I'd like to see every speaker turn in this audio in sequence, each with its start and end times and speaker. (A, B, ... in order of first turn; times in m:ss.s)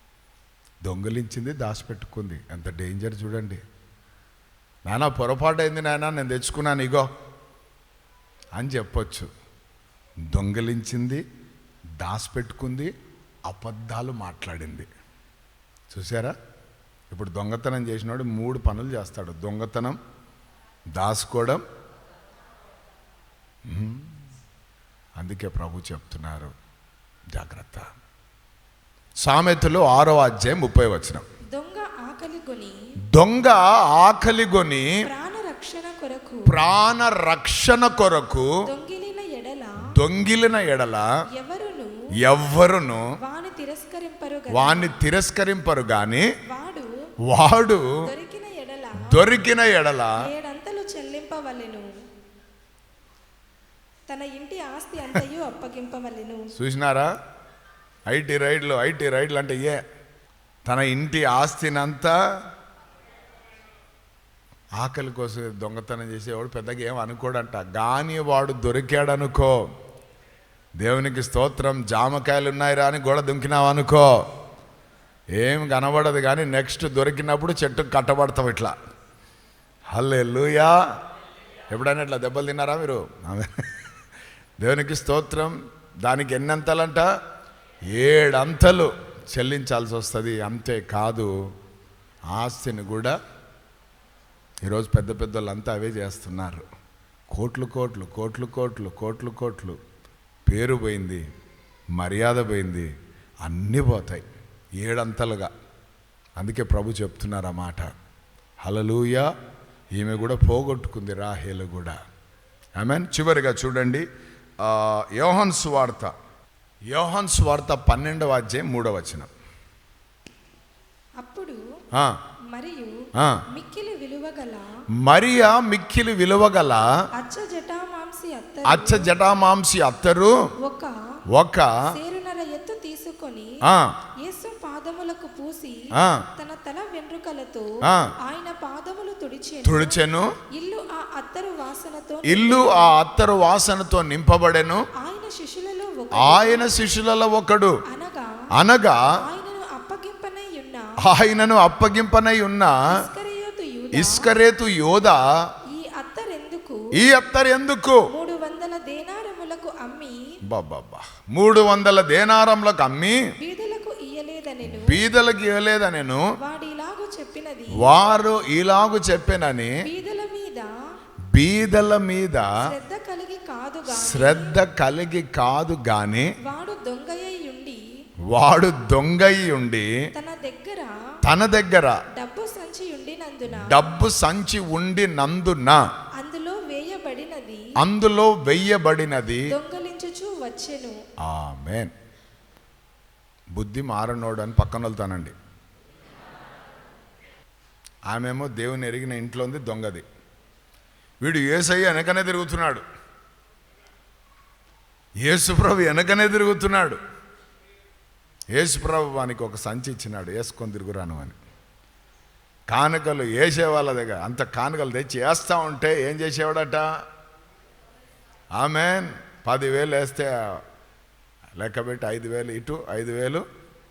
0:00.8-0:03.6 A
0:04.8-0:07.1 A
0:08.6-0:09.3 A
0:10.3-0:11.2 A
0:12.0-0:12.9 A
0:13.4-0:14.9 A
0:15.9-0:16.4 A
0:17.1-0:20.0 A
0:20.9-0:21.6 A
0:23.6-0:24.1 A
0:25.2-0:26.5 A
0:27.3-0:27.9 A
0:29.2-0:31.2 A
0:31.5-0:32.8 B
0:33.1-0:35.0 A
0:35.0-0:36.6 B
0:36.4-0:38.5 A
0:38.6-0:39.9 B
0:39.9-0:41.1 A
0:41.4-0:41.9 B
0:42.2-0:43.1 A
0:43.2-0:45.0 B
0:44.5-0:46.3 A
0:46.4-0:46.9 B
0:47.3-0:48.0 A
0:48.0-0:49.2 B
0:49.0-0:50.2 A
0:50.2-0:51.9 B
0:54.1-0:56.5 B
0:56.5-0:57.1 A
0:58.1-0:59.8 A
1:00.6-1:02.1 A
1:04.8-1:09.6 A
1:10.8-1:14.2 A
1:15.4-1:18.7 A
1:19.9-1:20.8 A
1:21.7-1:23.6 A
1:24.6-1:27.1 A
1:27.9-1:31.3 A
1:32.3-1:33.2 A
1:34.6-1:36.6 A
1:37.3-1:39.8 A
1:40.5-1:41.2 A
1:41.9-1:42.9 A
1:43.4-1:44.2 A
1:44.8-1:45.5 A
1:46.4-1:47.9 A
1:48.6-1:49.3 A
1:49.9-1:52.0 A
1:52.8-1:54.0 A
1:54.6-1:56.1 A
1:56.9-1:59.3 A
2:01.2-2:01.6 B
2:02.5-2:04.7 B
2:03.2-2:03.4 A
2:05.0-2:06.9 A
2:07.2-2:09.1 B
2:08.6-2:10.4 A
2:10.6-2:11.0 B
2:11.3-2:11.9 A
2:11.9-2:13.6 B
2:13.6-2:14.0 A
2:14.2-2:15.8 B
2:15.9-2:16.2 A
2:16.4-2:23.0 B
2:17.8-2:18.1 A
2:19.6-2:20.4 A
2:22.2-2:24.8 A
2:25.0-2:26.8 B
2:26.1-2:27.8 A
2:27.9-2:28.4 B
2:28.6-2:29.1 A
2:29.1-2:31.1 B
2:31.0-2:33.0 A
2:32.9-2:34.3 B
2:33.9-2:35.3 A
2:35.7-2:36.9 B
2:36.9-2:38.0 A
2:38.1-2:40.2 B
2:40.5-2:43.2 A
2:43.4-2:45.0 B
2:44.6-2:46.3 A
2:46.4-2:47.9 B
2:47.8-2:49.8 A
2:49.8-2:50.7 B
2:51.3-2:52.5 A
2:52.6-2:54.6 B
2:53.9-2:56.3 A
2:56.4-2:57.8 B
2:58.3-2:59.9 A
3:00.1-3:01.0 B
3:01.2-3:02.0 A
3:02.2-3:03.9 B
3:03.5-3:05.8 A
3:06.2-3:07.6 B
3:07.8-3:09.5 A
3:09.5-3:11.0 B
3:11.2-3:11.9 A
3:13.5-3:15.3 A
3:18.1-3:20.0 A
3:21.2-3:22.8 A
3:25.2-3:27.0 A
3:28.5-3:31.4 A
3:32.7-3:36.9 A
3:38.6-3:40.6 A
3:41.6-3:43.4 A